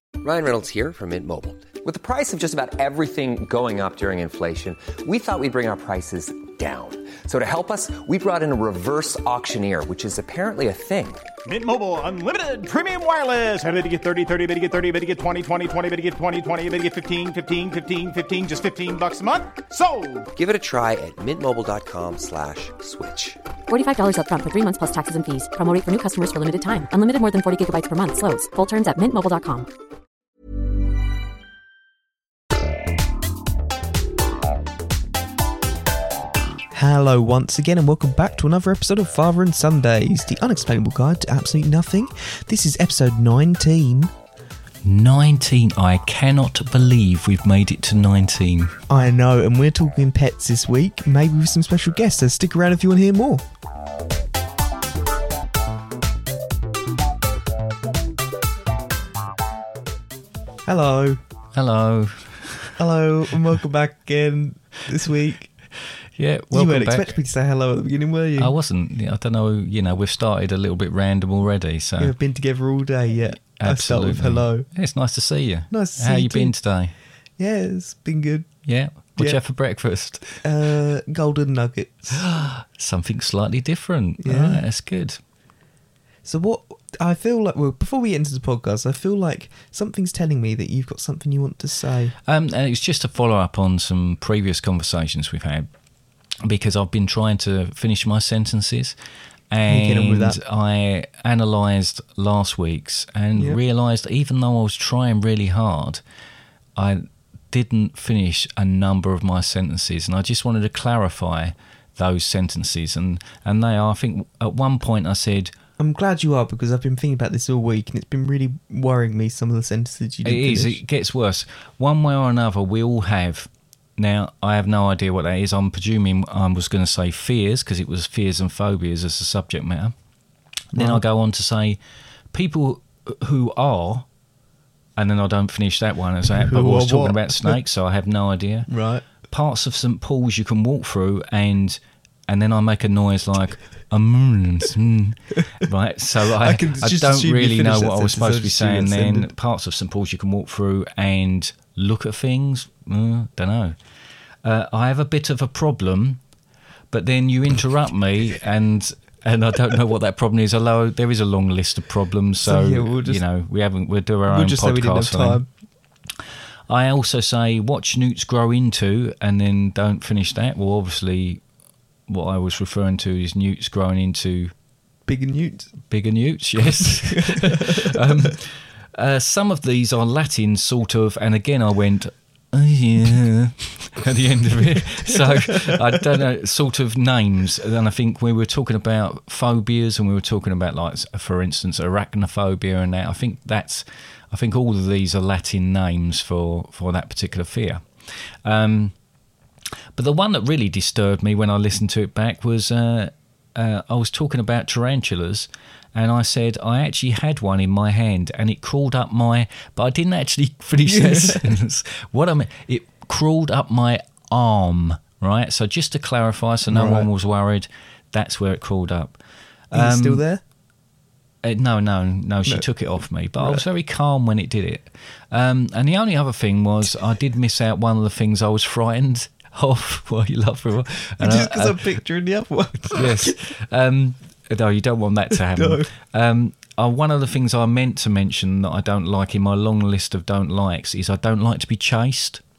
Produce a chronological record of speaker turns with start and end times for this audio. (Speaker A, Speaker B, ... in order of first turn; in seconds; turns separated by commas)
Speaker A: 0.2-11.3, Speaker B: 11.4-20.3, Speaker A: 20.4-23.4, Speaker C: 23.7-29.7, Speaker D: 36.7-44.1, Speaker E: 44.8-48.8, Speaker D: 48.9-53.4, Speaker D: 60.7-61.2, Speaker E: 61.5-62.8, Speaker D: 62.8-65.5, Speaker E: 66.2-67.1, Speaker D: 66.5-68.5, Speaker E: 68.4-72.2, Speaker D: 72.0-74.7, Speaker E: 73.6-76.9, Speaker D: 75.7-76.6, Speaker D: 77.4-78.5, Speaker E: 78.7-80.4, Speaker D: 80.4-82.2, Speaker E: 82.1-85.2, Speaker D: 84.2-84.6, Speaker D: 86.2-92.2, Speaker E: 92.2-95.7, Speaker E: 96.4-99.0, Speaker E: 99.5-106.0, Speaker D: 99.7-100.4, Speaker E: 106.8-115.5, Speaker D: 115.8-120.8, Speaker E: 120.2-129.9, Speaker E: 130.7-131.8, Speaker D: 130.7-131.0, Speaker E: 132.3-134.1, Speaker E: 135.0-138.7, Speaker D: 136.3-137.6, Speaker D: 138.7-139.1, Speaker E: 139.2-153.8, Speaker D: 146.3-149.3, Speaker E: 154.4-156.2, Speaker E: 156.9-165.4, Speaker D: 162.4-163.2, Speaker D: 164.3-165.5, Speaker E: 166.7-171.4, Speaker E: 172.1-174.5, Speaker D: 175.1-175.7, Speaker E: 175.9-198.9, Speaker D: 176.8-177.9, Speaker D: 185.1-185.8, Speaker E: 199.9-219.2, Speaker D: 210.8-211.6, Speaker D: 216.7-217.1, Speaker E: 219.7-220.2, Speaker D: 219.7-220.4, Speaker E: 221.4-231.8, Speaker D: 231.2-233.4, Speaker E: 232.9-242.4, Speaker D: 235.3-235.9